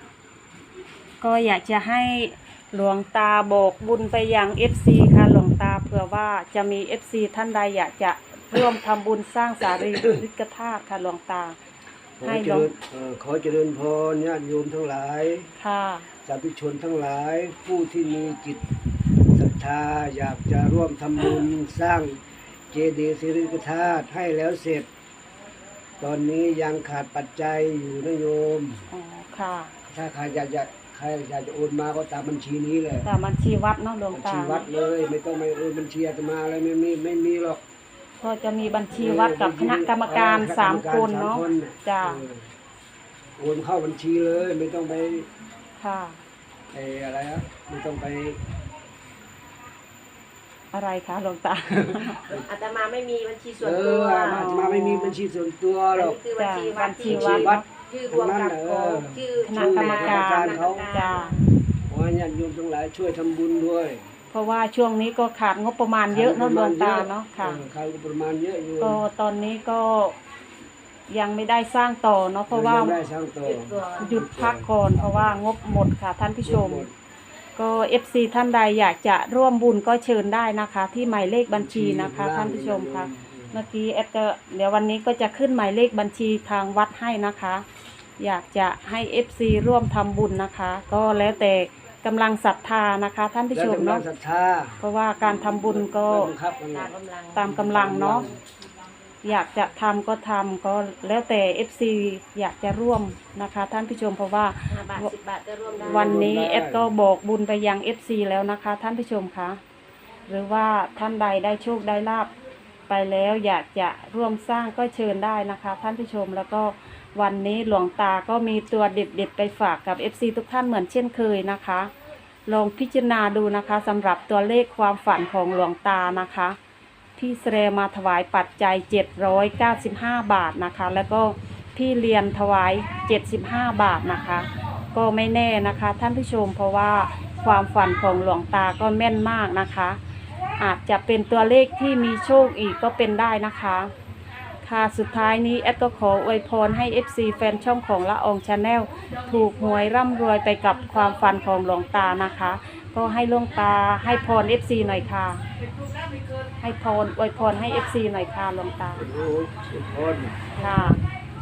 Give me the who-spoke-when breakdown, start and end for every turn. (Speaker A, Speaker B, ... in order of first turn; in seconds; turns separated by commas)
Speaker A: 1.2-11.6, Speaker B: 9.8-10.2, Speaker B: 12.2-15.5, Speaker A: 12.2-12.7, Speaker A: 15.6-16.1, Speaker B: 16.2-18.7, Speaker B: 19.3-22.2, Speaker B: 22.7-24.9, Speaker B: 26.0-28.9, Speaker A: 28.9-29.7, Speaker B: 29.8-33.1, Speaker A: 33.0-34.7, Speaker B: 34.1-37.6, Speaker A: 38.2-42.2, Speaker B: 38.9-42.5, Speaker B: 43.4-45.3, Speaker A: 45.8-46.2, Speaker B: 46.7-48.4, Speaker A: 50.7-52.3, Speaker B: 52.0-52.5, Speaker C: 52.3-54.4, Speaker B: 53.6-56.2, Speaker A: 54.3-55.2, Speaker C: 55.9-61.5, Speaker A: 56.4-57.6, Speaker B: 57.0-60.9, Speaker A: 59.4-61.4, Speaker B: 61.9-64.1, Speaker A: 64.3-67.6, Speaker B: 66.1-69.0, Speaker A: 68.8-70.2, Speaker A: 71.1-73.0, Speaker B: 72.5-75.4, Speaker C: 73.4-74.1, Speaker A: 74.0-76.9, Speaker B: 76.4-76.9, Speaker A: 77.5-87.6, Speaker B: 81.5-83.6, Speaker A: 88.2-94.0, Speaker B: 93.5-96.9, Speaker A: 94.8-96.3, Speaker C: 96.7-97.5, Speaker A: 97.3-98.3, Speaker B: 97.5-98.4, Speaker A: 99.2-105.1, Speaker C: 104.7-106.3, Speaker B: 105.8-106.9, Speaker A: 105.8-109.6, Speaker A: 110.3-112.3, Speaker A: 112.9-121.9, Speaker A: 122.5-126.6, Speaker A: 127.2-140.0, Speaker A: 140.6-143.9, Speaker A: 144.6-155.4, Speaker A: 156.6-159.1, Speaker B: 158.9-160.6, Speaker A: 160.6-161.0, Speaker C: 160.7-161.0